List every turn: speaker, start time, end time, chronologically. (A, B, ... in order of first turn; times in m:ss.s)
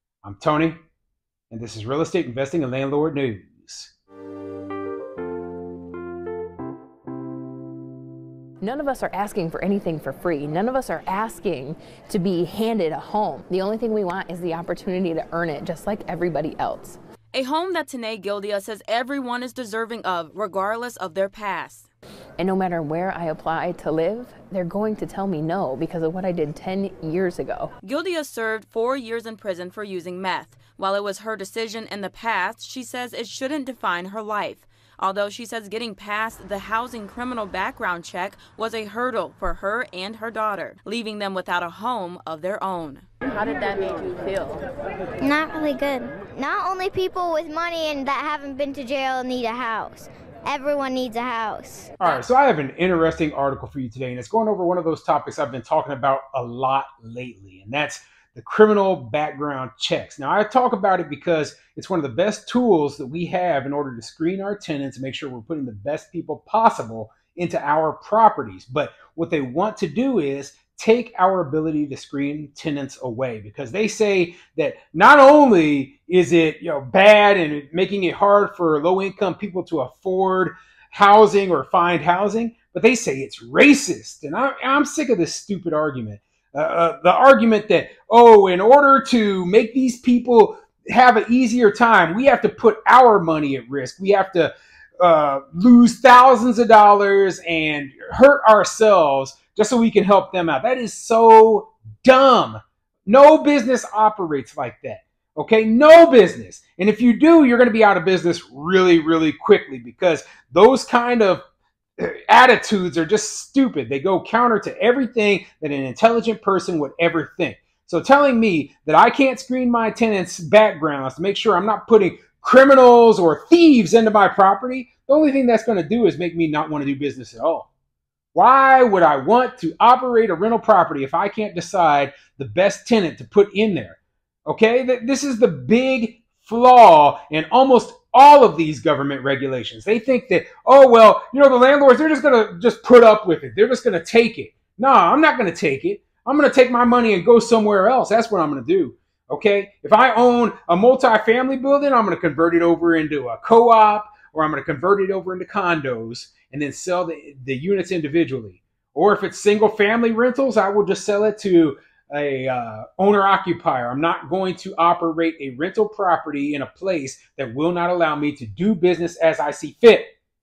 0:00.2-0:00.8 A
0:01.5-0:03.9 A
0:08.6-0:17.0 B
0:17.3-0:21.9 C
0:22.4-0:27.7 B
0:27.8-0:44.6 C
0:45.2-0:52.2 D
0:52.0-1:51.4 A
1:52.0-2:07.7 A
2:08.3-2:50.1 A